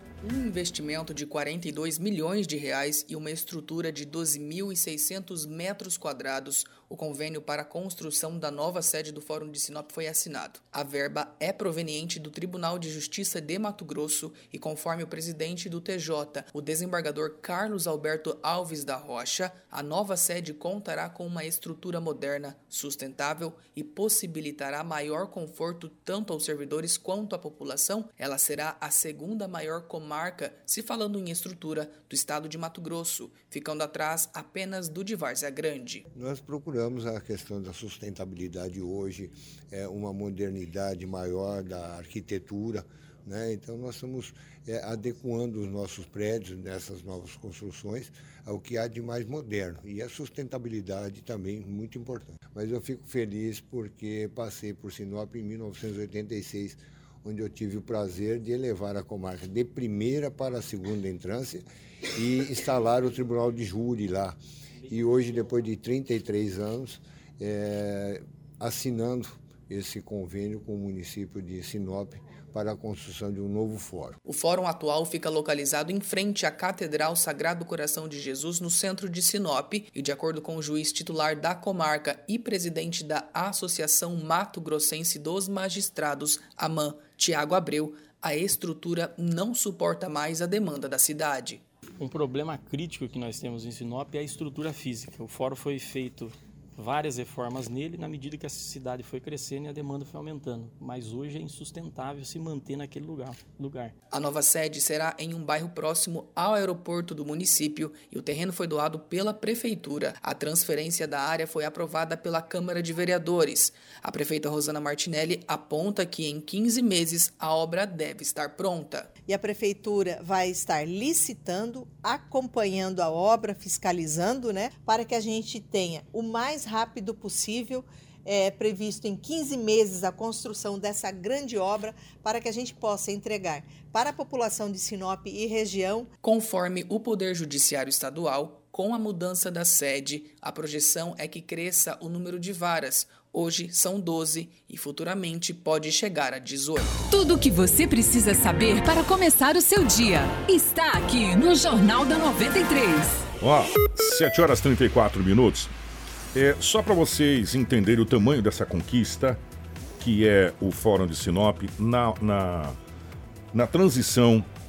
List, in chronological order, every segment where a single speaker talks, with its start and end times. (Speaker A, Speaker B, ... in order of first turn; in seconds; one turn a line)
Speaker A: 0.2-36.0
Speaker B: 36.1-74.2
Speaker A: 74.3-91.6
Speaker C: 92.0-103.9
Speaker A: 104.1-119.1
Speaker D: 119.3-136.1
Speaker A: 136.2-146.9
Speaker E: 147.1-153.2
Speaker F: 153.4-155.7
Speaker F: 156.3-159.4
Speaker F: 160.0-162.8
Speaker F: 163.5-164.5